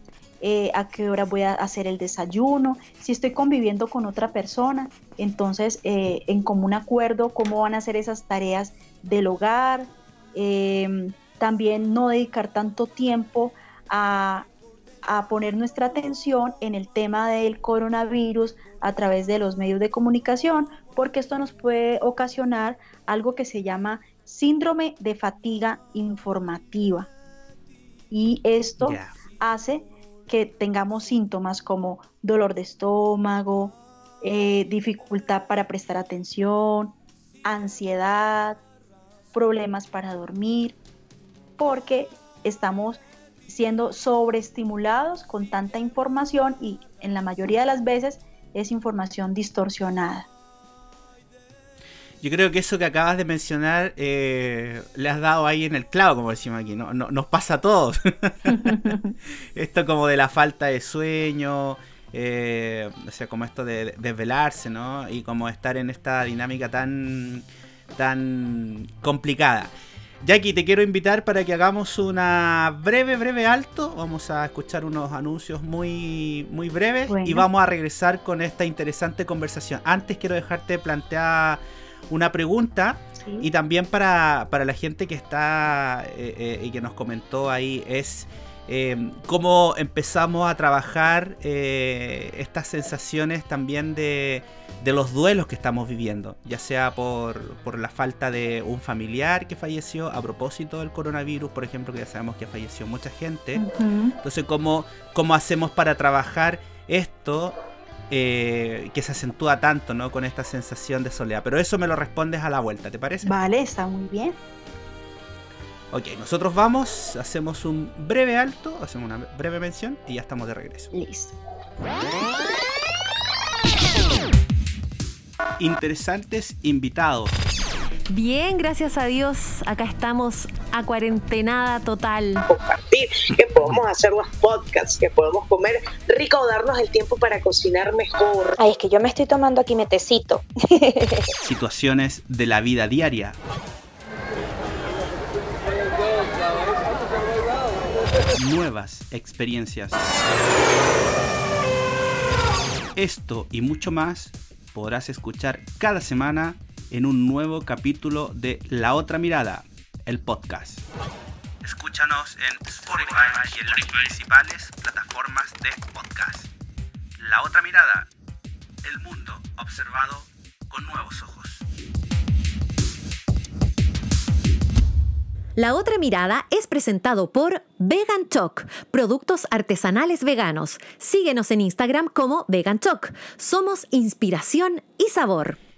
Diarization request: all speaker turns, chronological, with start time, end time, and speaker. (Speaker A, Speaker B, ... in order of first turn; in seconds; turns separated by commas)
Speaker A: 0.4-14.5, Speaker A: 15.1-27.1, Speaker A: 28.1-38.6, Speaker B: 28.8-29.1, Speaker A: 39.3-40.8, Speaker A: 41.6-50.3, Speaker B: 52.2-58.9, Speaker A: 58.5-59.1, Speaker B: 59.5-67.4, Speaker B: 67.9-69.7, Speaker B: 70.2-103.6, Speaker A: 77.1-77.5, Speaker A: 83.2-83.5, Speaker A: 103.6-104.2, Speaker B: 104.2-107.6, Speaker B: 108.1-113.3, Speaker A: 113.2-114.4, Speaker B: 115.9-120.9, Speaker A: 120.9-121.4, Speaker B: 125.6-127.3, Speaker C: 128.1-132.4, Speaker D: 132.5-138.6, Speaker E: 138.6-141.2, Speaker B: 141.4-143.4, Speaker B: 148.3-150.2, Speaker B: 152.9-160.8, Speaker B: 161.6-166.5, Speaker B: 167.2-168.1, Speaker B: 168.8-171.6, Speaker C: 175.6-185.6